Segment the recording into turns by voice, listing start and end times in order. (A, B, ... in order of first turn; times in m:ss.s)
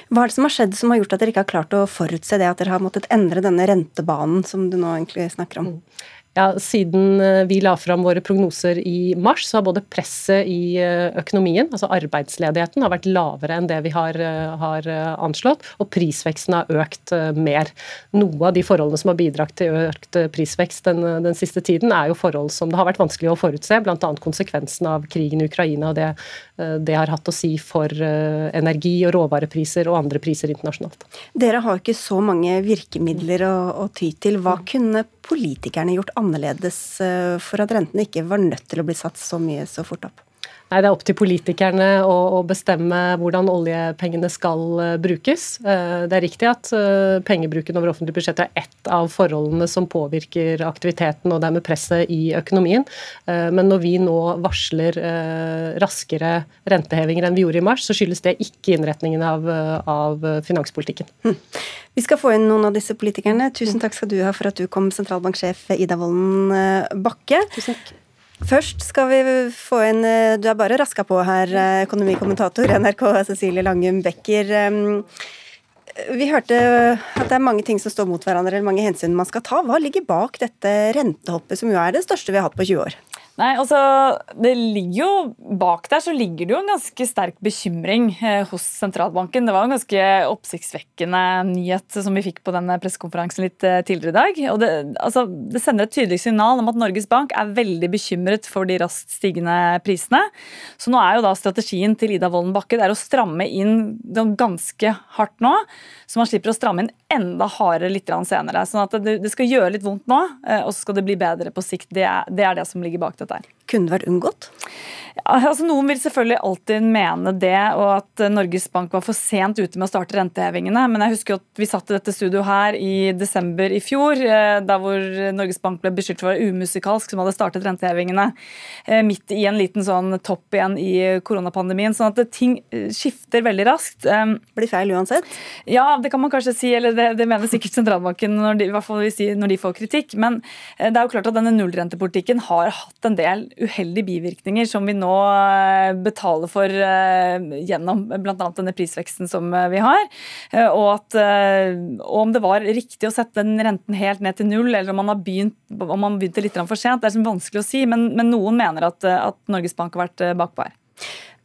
0:00.1-0:05.7 A
0:06.3-0:31.0 B
0:31.3-0:40.2 A
0:40.7-1:01.1 B
1:01.9-1:07.5 A
1:08.4-1:15.0 A
1:16.0-1:23.0 A
1:23.4-1:53.4 C
1:53.7-1:54.5 A
1:55.2-2:08.3 C
2:08.9-2:14.4 C
2:14.6-2:15.3 A
2:15.7-2:40.7 C